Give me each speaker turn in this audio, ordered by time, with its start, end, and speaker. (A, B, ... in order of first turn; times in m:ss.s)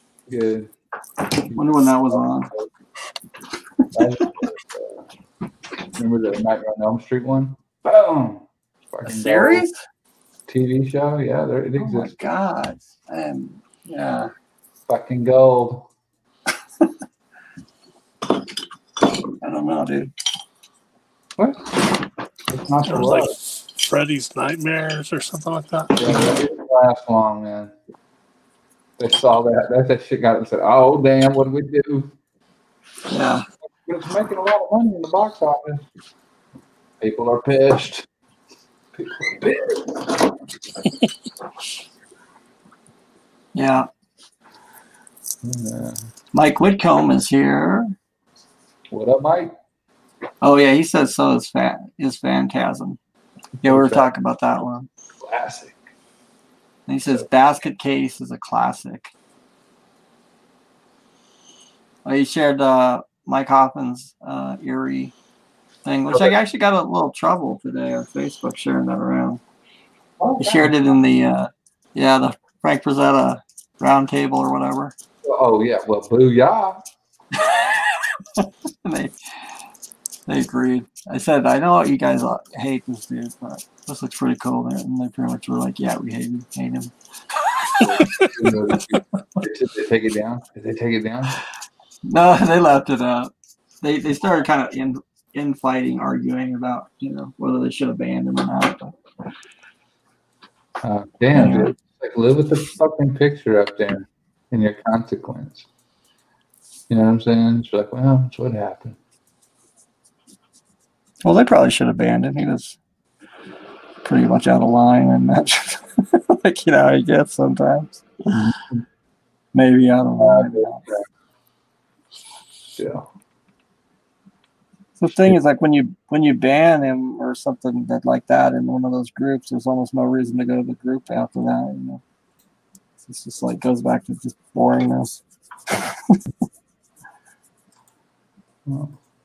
0:00.3-0:00.7 A
0:01.2-0:02.7 A
0:01.5-0:02.5 B
0:03.9-0:05.0 A
0:05.9-0:09.6 A
0:09.0-0:09.8 B
0:10.5-0:12.2 A
0:11.8-0:14.3 B
0:14.9-0:15.9 A
0:19.4-0:20.1 B
0:21.4-0:21.8 A
0:22.4-0:23.3 A
0:22.9-0:26.0 C
0:25.9-0:27.7 A
0:29.0-0:32.1 A
0:33.1-0:33.4 B
0:33.8-0:35.8 A
0:37.0-0:38.1 A
0:38.9-0:40.4 A
0:43.5-0:43.9 B
0:45.4-0:46.0 A
0:46.3-0:47.9 B
0:48.9-0:49.5 A
0:50.4-0:53.0 B
0:53.6-0:54.1 A
0:53.6-0:54.9 B
0:55.2-0:55.8 A
0:56.9-0:59.1 B
1:02.0-1:05.1 B
1:05.8-1:09.4 B
1:10.2-1:10.7 A
1:10.4-1:14.9 B
1:15.2-1:16.8 A
1:17.4-1:19.1 B
1:20.3-1:26.9 B
1:27.4-1:27.9 B
1:27.8-1:31.4 A
1:32.0-1:38.9 B
1:40.8-1:45.6 A
1:41.3-1:41.7 B
1:46.9-1:49.0 A
1:51.2-1:52.8 B
1:54.0-1:58.5 B
1:58.3-1:58.8 A
1:59.5-2:00.8 B
2:00.2-2:01.0 A
2:02.8-2:03.1 A
2:05.0-2:12.0 B
2:13.0-2:16.2 B
2:18.6-2:19.0 A